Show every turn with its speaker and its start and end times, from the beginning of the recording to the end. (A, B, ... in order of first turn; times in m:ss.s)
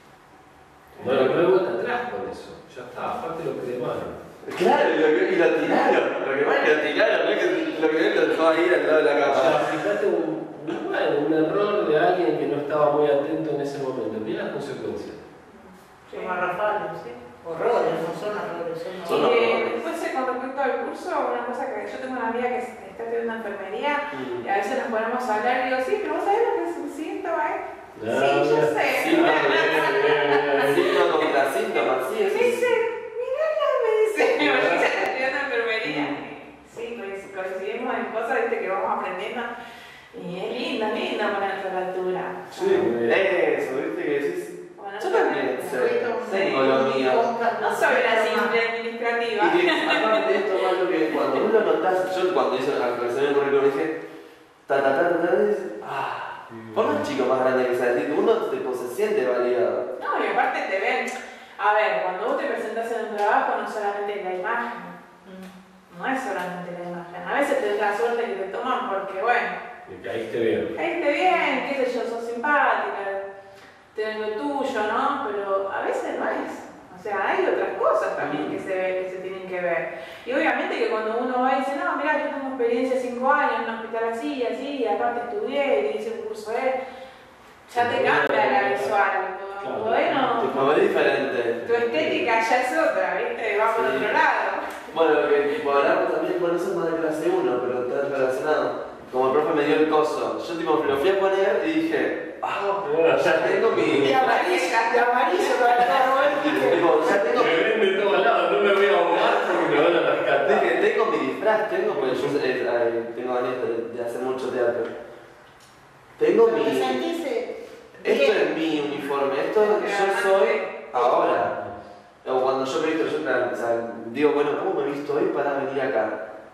0:00.9-0:04.2 A
0:01.0-0:01.4 B
0:04.4-0:09.7 B
0:07.4-0:07.8 C
0:09.2-0:15.2 A
0:15.5-0:16.4 D
0:16.1-0:19.4 C
0:19.0-0:19.8 B
0:19.0-0:31.3 D
0:24.1-0:24.5 B
0:28.0-0:31.1 A
0:29.0-0:30.1 B
0:30.7-0:32.7 B
0:32.1-0:39.5 D
0:34.4-0:34.9 A
0:35.8-0:36.1 B
0:40.1-0:42.9 D
0:42.5-0:43.3 A
0:42.7-0:47.3 B
0:44.8-0:46.9 D
0:45.6-0:48.6 C
0:47.6-0:50.7 D
0:49.4-0:54.0 B
0:54.7-0:59.8 B
0:56.5-0:57.1 A
1:00.0-1:05.0 D
1:05.2-1:05.5 C
1:05.9-1:09.6 D
1:09.9-1:10.8 A
1:10.8-1:13.2 D
1:11.2-1:11.7 C
1:13.9-1:26.8 D
1:18.2-1:18.5 B
1:27.7-1:30.5 D
1:27.8-1:29.0 A
1:29.6-1:32.4 A
1:30.5-1:31.6 B
1:31.6-1:34.9 D
1:33.7-1:34.2 B
1:34.9-1:44.4 B
1:42.6-1:44.2 A
1:43.9-1:47.5 C
1:44.2-1:46.8 D
1:46.3-1:47.7 B
1:47.0-1:50.8 A
1:50.4-1:54.9 B
1:51.9-1:52.4 A
1:56.2-1:57.0 B
1:56.4-1:58.8 C
1:58.0-2:01.6 B
1:59.5-2:01.1 D
2:01.2-2:01.8 A
2:02.2-2:06.2 B